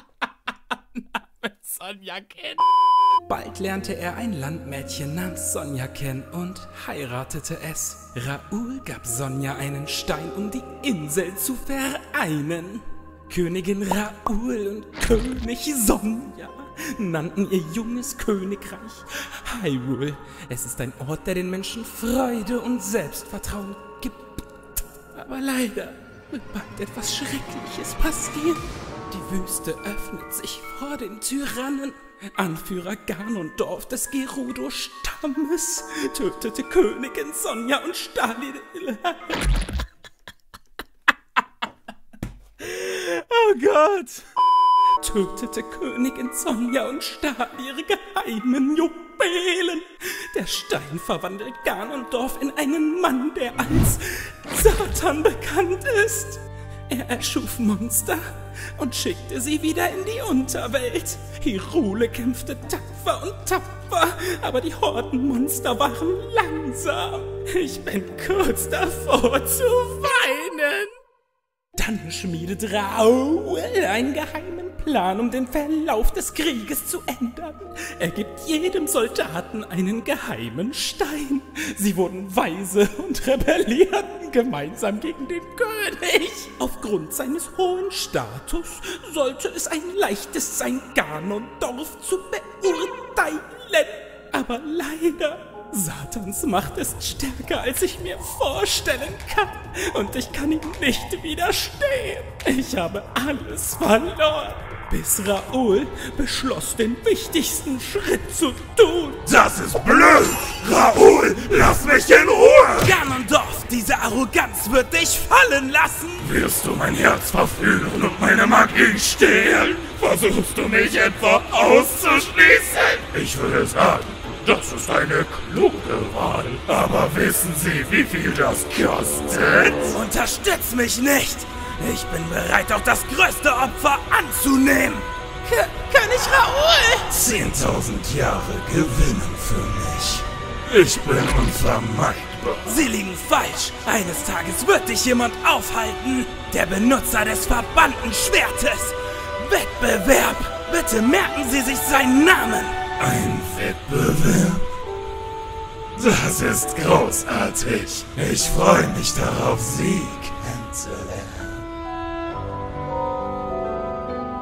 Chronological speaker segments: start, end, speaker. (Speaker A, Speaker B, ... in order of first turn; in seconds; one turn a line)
Speaker A: 0.2-2.7
Speaker A: 3.2-39.5
Speaker A: 42.6-44.3
Speaker A: 45.0-71.0
Speaker A: 71.8-109.3
Speaker B: 109.3-112.9
Speaker A: 112.7-116.3
Speaker B: 116.2-129.9
Speaker A: 129.8-137.2
Speaker B: 137.1-142.7
Speaker A: 142.6-152.9
Speaker B: 153.0-154.6
Speaker B: 155.9-161.6